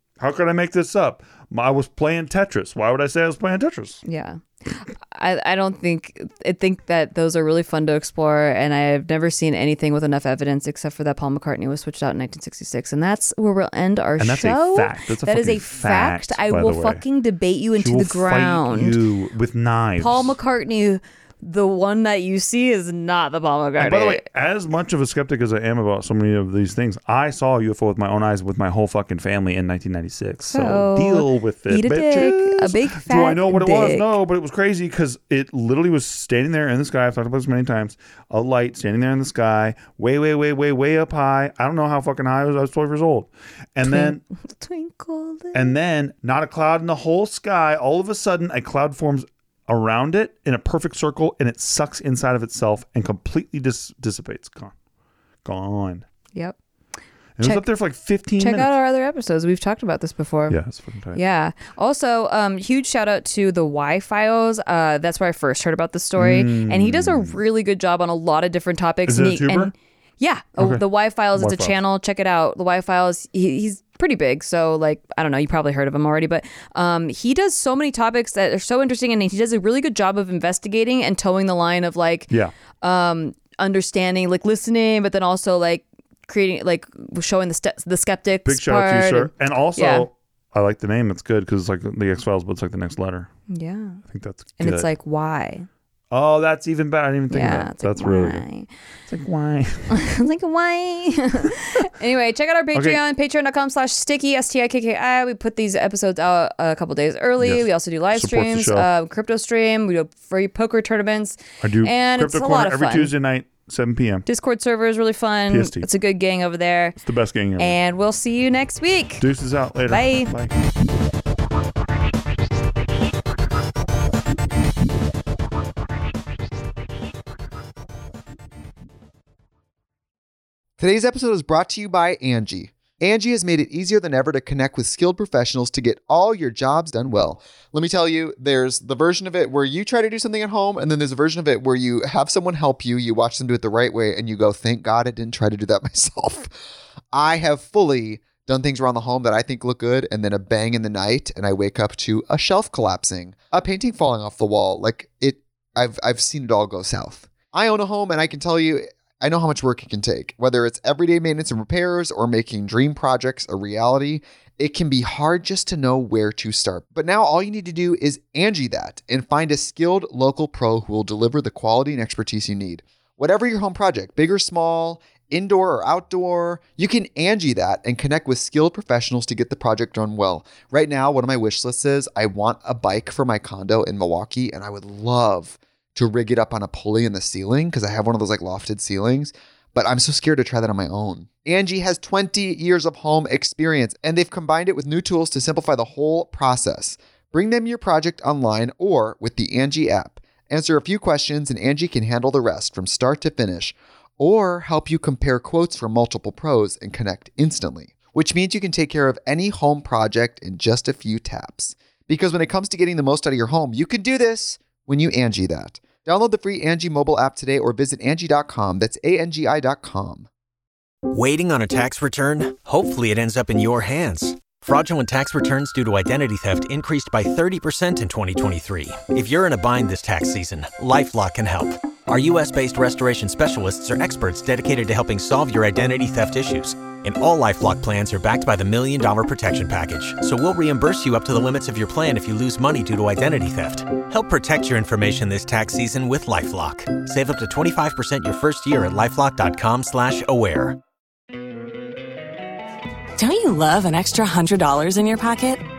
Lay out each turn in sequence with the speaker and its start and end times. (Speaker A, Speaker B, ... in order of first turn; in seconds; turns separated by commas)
Speaker A: 0.2-4.0, Speaker B: 4.0-19.0, Speaker A: 14.2-17.0, Speaker A: 17.8-20.3, Speaker B: 20.0-24.2, Speaker A: 23.8-44.2, Speaker B: 30.4-34.1, Speaker B: 43.9-45.8, Speaker A: 45.5-54.7, Speaker A: 55.5-56.0, Speaker A: 57.4-58.7, Speaker B: 58.4-60.6, Speaker A: 60.5-61.2, Speaker B: 61.1-90.1, Speaker A: 66.2-67.4, Speaker A: 69.1-69.7, Speaker A: 70.6-70.8, Speaker A: 71.3-71.7, Speaker A: 88.5-93.3, Speaker B: 93.5-94.0, Speaker A: 94.1-94.9, Speaker B: 94.6-95.7, Speaker A: 96.1-98.5, Speaker B: 97.3-98.7, Speaker A: 99.1-100.0, Speaker B: 99.9-113.1, Speaker A: 102.8-103.0, Speaker A: 107.4-108.9, Speaker A: 111.6-114.2, Speaker B: 114.3-117.0, Speaker A: 115.5-115.8, Speaker A: 117.0-117.8, Speaker B: 117.6-119.3, Speaker A: 119.2-120.5, Speaker B: 119.9-120.3, Speaker C: 130.8-146.5, Speaker C: 147.1-220.3, Speaker D: 221.1-250.8, Speaker E: 253.2-255.6